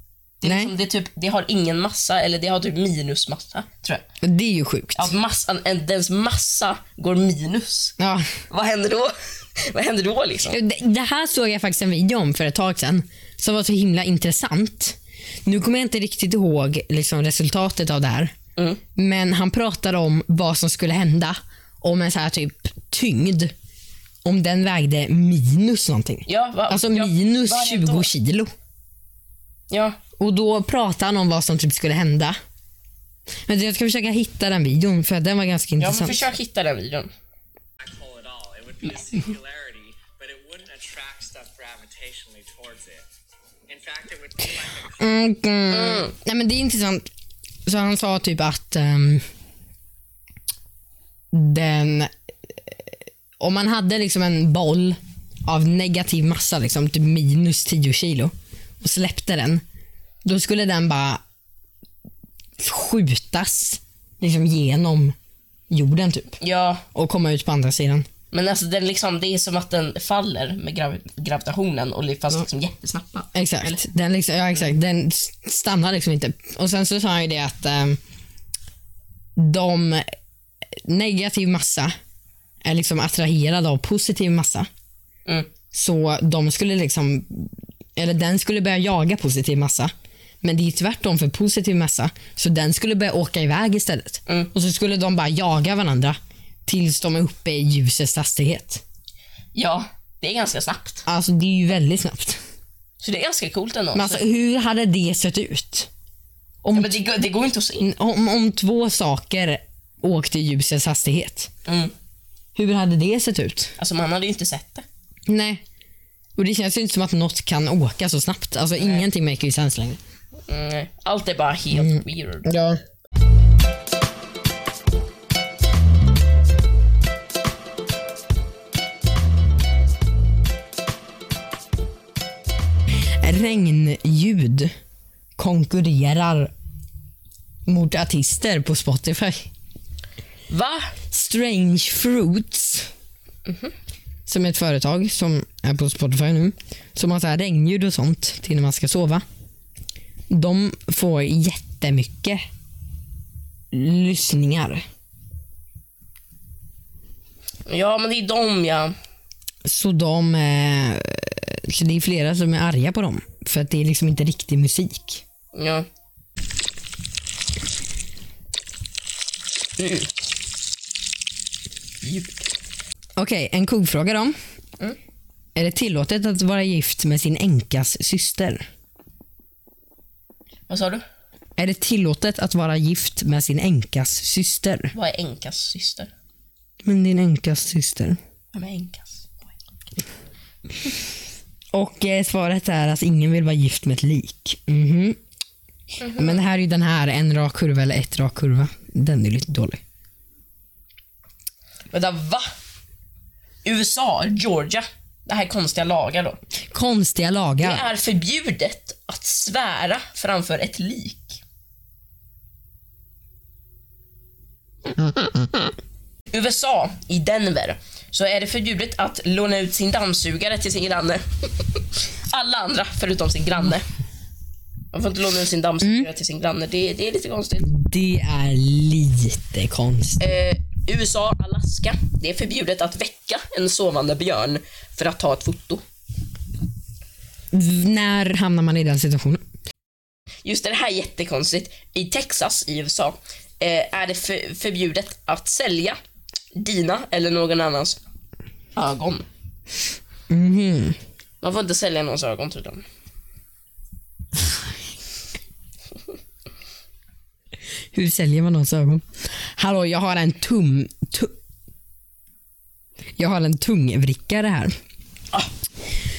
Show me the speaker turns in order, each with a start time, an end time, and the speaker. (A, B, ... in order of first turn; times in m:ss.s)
0:00.4-0:04.0 A
0:00.4-0:00.7 B
0:04.2-0:05.1 B
0:05.0-0:08.0 A
0:08.0-0:08.3 B
0:08.5-0:10.6 A
0:10.5-0:18.4 B
0:18.6-0:18.8 A
0:19.0-0:23.5 B
0:24.2-0:28.5 B
0:26.3-0:28.1 A
0:29.7-0:30.0 A
0:30.2-0:32.4 B
0:33.5-0:36.3 B
0:35.8-0:37.1 A
0:37.8-0:43.1 C
0:43.7-0:45.0 C
0:45.0-0:47.1 B
0:45.7-0:46.1 A
0:47.7-0:49.2 B
0:51.3-0:52.1 B
0:53.4-0:59.6 B
1:00.2-1:01.2 B
1:02.6-1:05.2 B
1:05.7-1:06.4 B
1:06.4-1:06.8 A
1:06.9-1:08.1 B
1:08.3-1:13.7 A
1:13.3-1:18.0 B
1:19.4-1:20.1 B
1:20.8-1:21.9 B
1:22.6-1:24.7 B
1:25.7-1:29.9 B
1:30.4-1:38.8 B
1:39.6-1:41.0 A
1:41.1-1:42.4 B
1:43.0-1:44.2 A
1:43.9-1:45.9 B
1:46.6-1:47.0 B
1:46.7-1:47.9 A
1:47.8-1:51.5 B
1:51.7-1:51.9 A
1:52.6-1:53.7 B
1:53.8-1:54.9 A
1:55.3-1:55.6 B
1:56.4-2:00.0 B
1:58.8-1:59.1 A
2:00.5-2:02.5 A
2:01.7-2:02.8 B
2:13.2-2:14.7 B
2:15.4-2:16.5 B
2:17.7-2:19.5 B
2:20.5-2:20.9 A
2:21.1-2:22.9 B
2:23.5-2:23.7 A
2:24.3-2:29.2 B
2:30.3-2:32.4 B
2:33.7-2:34.8 B
2:37.7-2:39.0 A
2:39.6-2:45.2 B
2:45.5-2:45.9 A
2:49.8-2:50.1 A
2:52.0-2:52.4 A
2:53.2-2:54.4 B
2:55.6-2:58.7 B
3:00.7-3:01.0 A
3:01.6-3:04.9 B
3:04.9-3:06.1 A
3:06.8-3:08.2 B
3:08.5-3:09.5 A
3:11.7-3:15.2 B
3:16.0-3:19.8 B
3:16.0-3:16.4 A
3:21.9-3:22.5 A
3:23.6-3:26.4 A
3:26.7-3:27.9 B
3:27.6-3:31.4 A
3:36.3-3:43.9 A
3:44.9-3:47.7 A
3:45.8-3:46.1 B
3:47.6-3:50.4 B
3:50.2-3:55.8 A
3:57.5-3:59.4 B
4:00.4-4:06.0 A
4:06.5-4:08.0 A
4:08.8-4:09.3 A
4:10.3-4:11.0 B
4:11.4-4:12.8 A
4:17.9-4:19.1 B
4:19.6-4:21.3 B
4:23.2-4:24.8 B